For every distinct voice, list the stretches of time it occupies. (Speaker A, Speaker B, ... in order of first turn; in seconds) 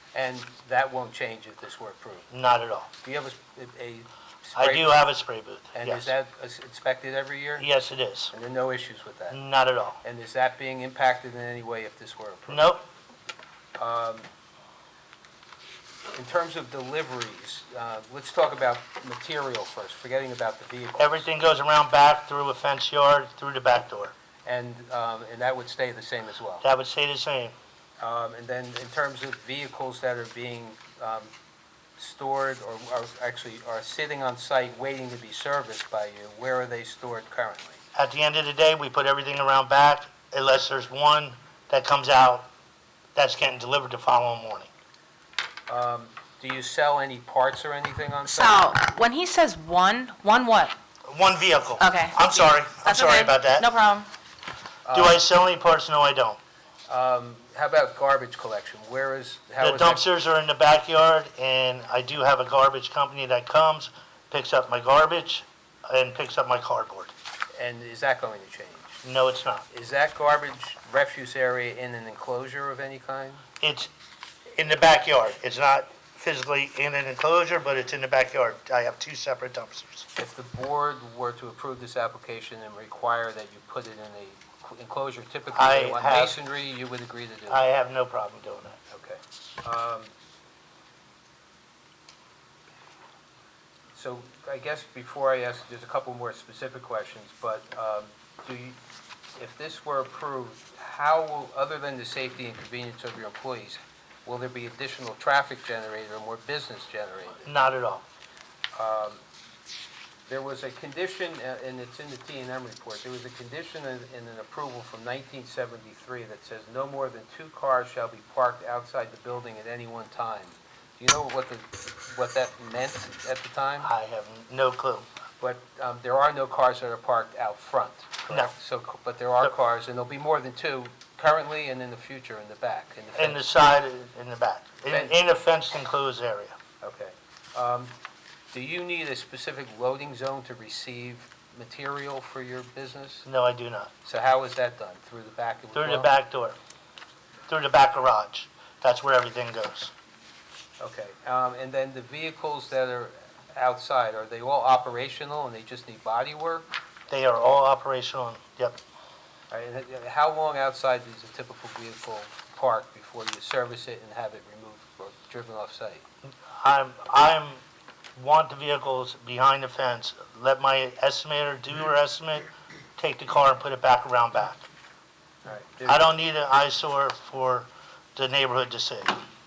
Speaker A: 0.1-2.3, 3.0-5.0, 5.7-7.7, 8.3-9.4, 10.0-12.8, 13.8-14.3, 16.1-21.3, 24.4-26.6, 28.0-31.3, 32.0-37.8, 45.7-48.7, 54.9-55.2, 56.9-60.0, 67.5-69.0, 69.7-73.4, 80.2-87.6, 88.9-90.1, 93.9-98.8, 99.3-107.4, 108.7-109.2, 110.3-123.9, 125.4-133.5, 134.9-135.2, 136.8-137.9, 138.5-143.2, 144.0-146.1, 150.8-156.7, 159.5-166.1, 175.4-176.1
Speaker B: 2.3-2.9, 4.5-6.1, 7.6-8.3, 9.3-10.0, 12.5-12.8, 21.0-24.1, 26.6-27.5, 37.9-42.5, 43.1-44.7, 51.1-53.7, 54.9-56.4, 59.6-67.1, 69.0-69.7, 73.6-73.9, 74.6-80.0, 85.5-86.4, 87.5-88.8, 107.4-108.0, 123.8-125.0, 133.1-136.6, 143.2-143.9, 145.7-146.6, 147.5-149.9, 157.1-158.8, 166.6-167.6, 168.2-174.7, 175.8-179.2
Speaker C: 48.3-50.7, 51.8-54.1